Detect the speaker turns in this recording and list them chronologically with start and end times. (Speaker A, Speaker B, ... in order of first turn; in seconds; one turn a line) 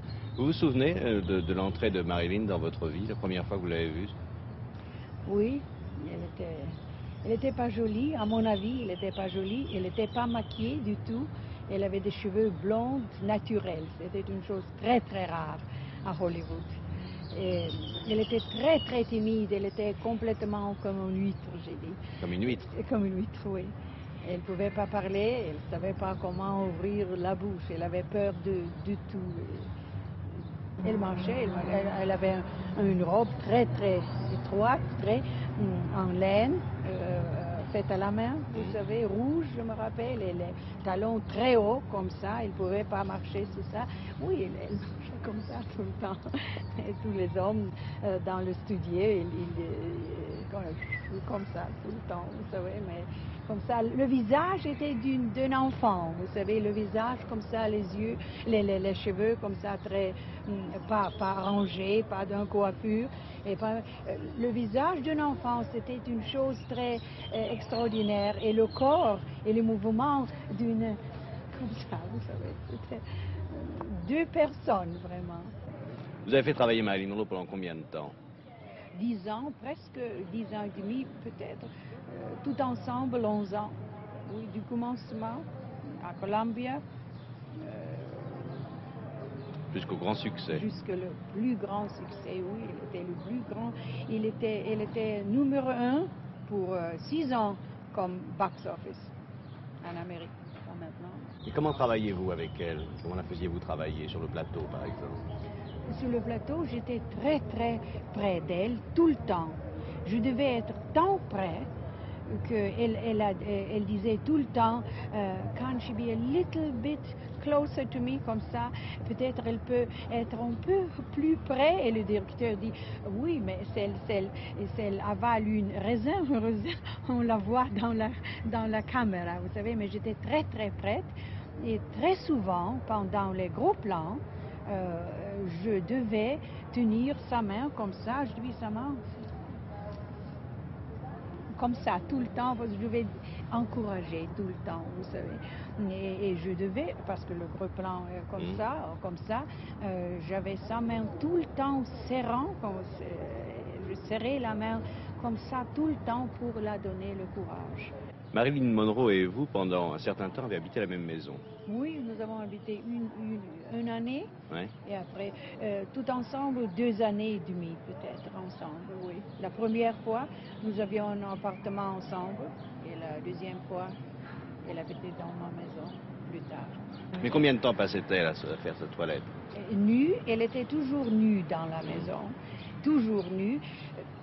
Speaker A: 0.4-4.1
Speaker B: 5.3-16.8
Speaker B: 17.3-29.7
Speaker A: 22.2-22.6
Speaker B: 30.8-71.0
Speaker B: 71.5-75.5
Speaker A: 76.2-78.2
Speaker B: 78.9-83.8
Speaker B: 84.3-85.5
Speaker B: 86.0-86.8
Speaker B: 87.6-88.6
Speaker A: 89.7-90.6
Speaker B: 90.5-99.1
Speaker B: 99.8-101.3
Speaker A: 101.5-105.2
Speaker B: 105.9-111.7
Speaker B: 112.3-139.3
Speaker B: 141.6-157.9
Speaker A: 158.3-161.4
Speaker B: 161.7-164.3
Speaker B: 164.8-173.9
Speaker B: 174.6-176.8
Speaker A: 177.2-179.3
Speaker B: 179.5-183.6
Speaker A: 181.8-182.1